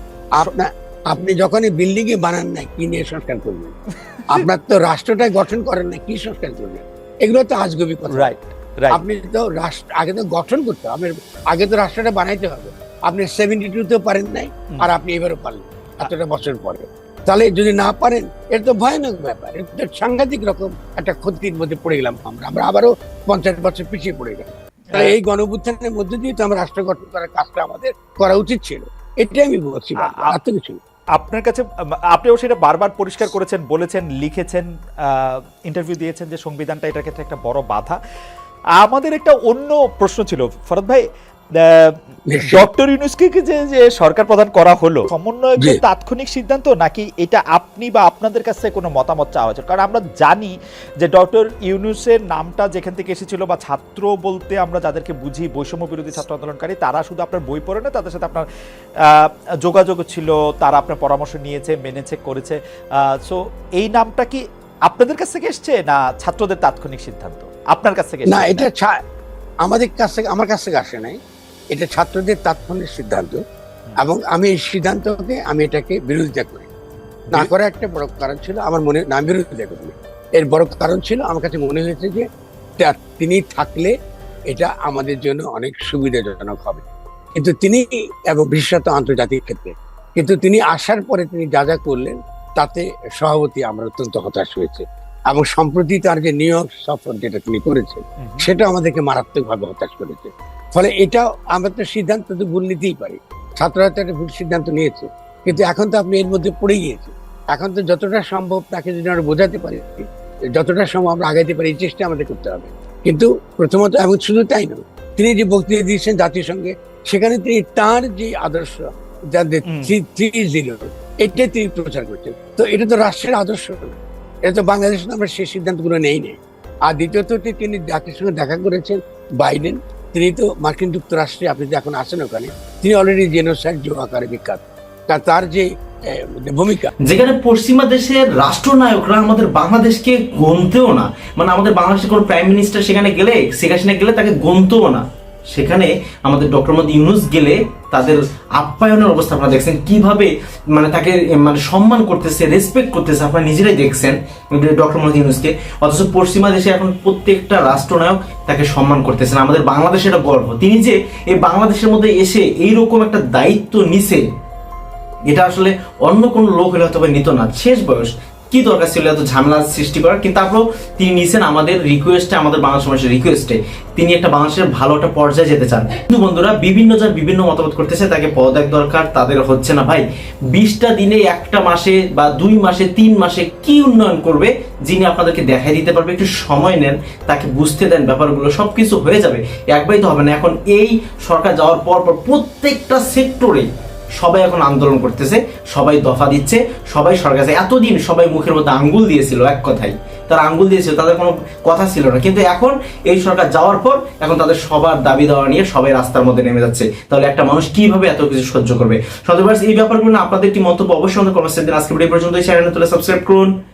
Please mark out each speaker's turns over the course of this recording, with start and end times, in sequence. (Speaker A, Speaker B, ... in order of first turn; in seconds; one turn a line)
Speaker A: 0.3-3.7
Speaker A: 4.3-8.3
Speaker B: 8.1-9.0
Speaker A: 8.9-30.8
Speaker B: 30.1-30.3
Speaker B: 31.2-38.0
Speaker B: 38.8-41.0
Speaker B: 41.7-42.0
Speaker A: 42.3-42.7
Speaker B: 42.5-58.5
Speaker B: 59.2-68.7
Speaker A: 68.3-68.9
Speaker A: 69.6-71.2
Speaker A: 71.7-73.4
Speaker A: 74.0-76.7
Speaker A: 77.3-82.2
Speaker A: 82.8-83.9
Speaker A: 84.5-110.0
Speaker B: 98.2-98.5
Speaker A: 110.5-118.8
Speaker A: 119.3-136.9
Speaker B: 119.7-119.9
Speaker C: 137.1-164.2
Speaker C: 165.3-180.0
Speaker C: 180.5-193.7
Speaker C: 194.2-213.5